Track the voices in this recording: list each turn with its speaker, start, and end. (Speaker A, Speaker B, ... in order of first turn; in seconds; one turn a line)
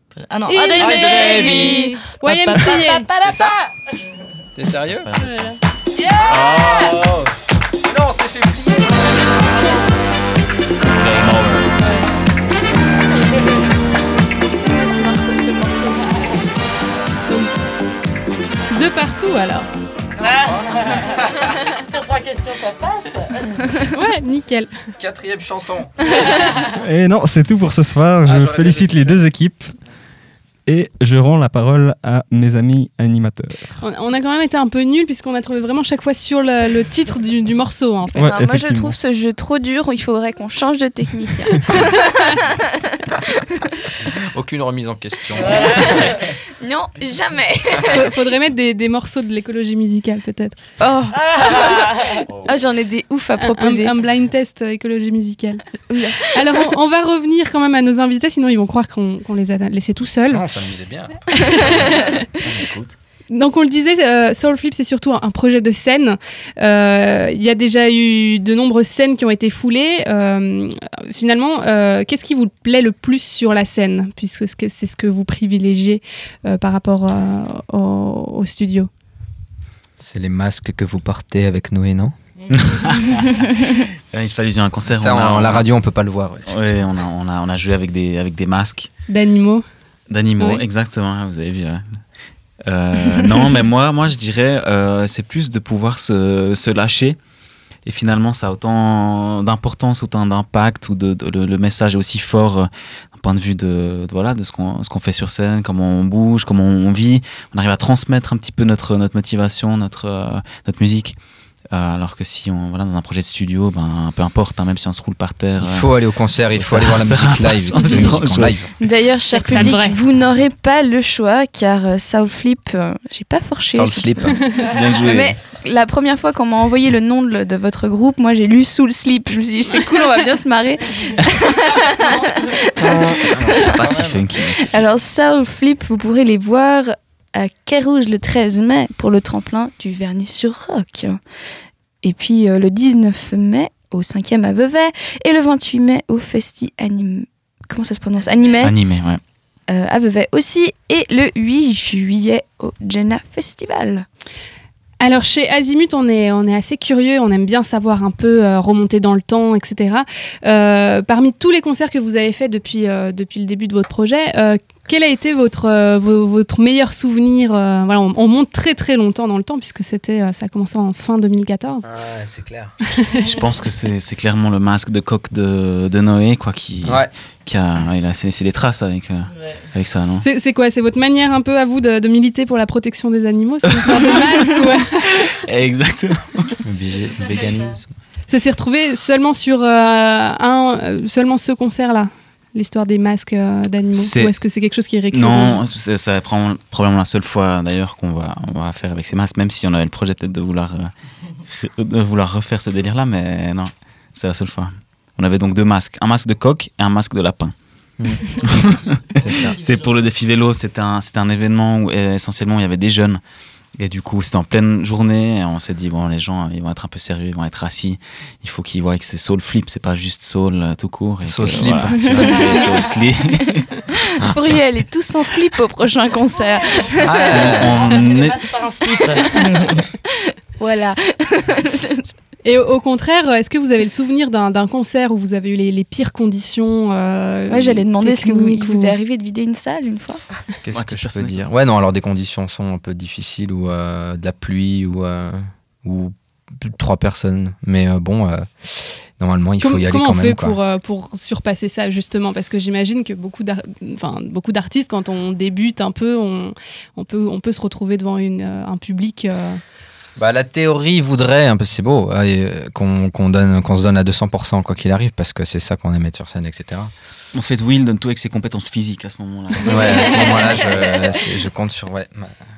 Speaker A: 0.1-3.8
Speaker B: 0.5-3.1
Speaker C: 0.8-1.4
Speaker D: 1.2-1.6
Speaker D: 3.2-3.5
Speaker D: 4.5-5.1
Speaker C: 5.1-5.6
Speaker B: 5.2-5.5
Speaker A: 6.0-6.5
Speaker D: 6.2-7.0
Speaker C: 6.3-7.3
Speaker D: 7.8-9.4
Speaker C: 10.9-11.8
Speaker E: 14.5-16.4
Speaker B: 17.3-17.5
Speaker B: 18.7-19.7
Speaker A: 20.2-23.8
Speaker D: 20.5-21.4
Speaker B: 23.9-24.7
Speaker D: 25.0-26.1
Speaker F: 26.7-29.7
Speaker D: 28.2-29.2
Speaker F: 30.7-33.8
Speaker B: 33.8-38.3
Speaker F: 38.1-39.0
Speaker E: 38.2-43.6
Speaker D: 44.0-46.2
Speaker E: 45.4-48.2
Speaker B: 47.9-50.6
Speaker E: 50.8-54.0
Speaker B: 53.4-60.4
Speaker E: 55.9-56.6
Speaker D: 60.3-61.6
Speaker E: 61.6-62.1
Speaker C: 62.5-63.0
Speaker B: 63.3-78.9
Speaker D: 80.0-82.1
Speaker C: 82.5-85.7
Speaker D: 84.9-86.7
Speaker C: 86.5-88.9
Speaker B: 89.1-89.7
Speaker C: 90.1-91.8
Speaker C: 92.7-97.2
Speaker C: 97.9-111.2
Speaker C: 111.7-115.9
Speaker D: 115.6-118.7
Speaker C: 116.5-118.6
Speaker E: 118.8-124.3
Speaker B: 119.3-120.0
Speaker D: 123.7-124.4
Speaker C: 124.7-125.3
Speaker E: 124.9-141.2
Speaker D: 132.8-134.3
Speaker C: 133.5-134.8
Speaker E: 142.0-148.8
Speaker C: 148.6-149.2
Speaker E: 149.7-154.1
Speaker B: 155.0-171.9
Speaker D: 171.8-172.7
Speaker B: 172.8-173.4
Speaker C: 173.2-180.2
Speaker D: 176.8-177.1
Speaker B: 180.2-185.3
Speaker C: 183.7-184.4
Speaker C: 185.1-186.5
Speaker D: 186.7-187.9
Speaker B: 188.3-195.6
Speaker C: 194.0-194.3
Speaker C: 195.1-200.9
Speaker C: 201.5-207.5
Speaker D: 208.0-208.4
Speaker C: 208.3-213.2
Speaker D: 209.2-209.6
Speaker C: 213.8-223.7
Speaker D: 221.2-222.5
Speaker E: 222.0-222.9
Speaker E: 223.5-227.7
Speaker D: 227.0-227.9
Speaker C: 227.3-228.5
Speaker A: 227.9-229.8
Speaker E: 229.2-229.5
Speaker E: 230.2-232.1
Speaker B: 232.4-239.0
Speaker E: 237.5-240.4
Speaker D: 240.6-250.6
Speaker C: 240.7-241.4
Speaker B: 249.6-259.6
Speaker D: 260.2-266.9
Speaker C: 267.3-270.9
Speaker D: 269.6-272.4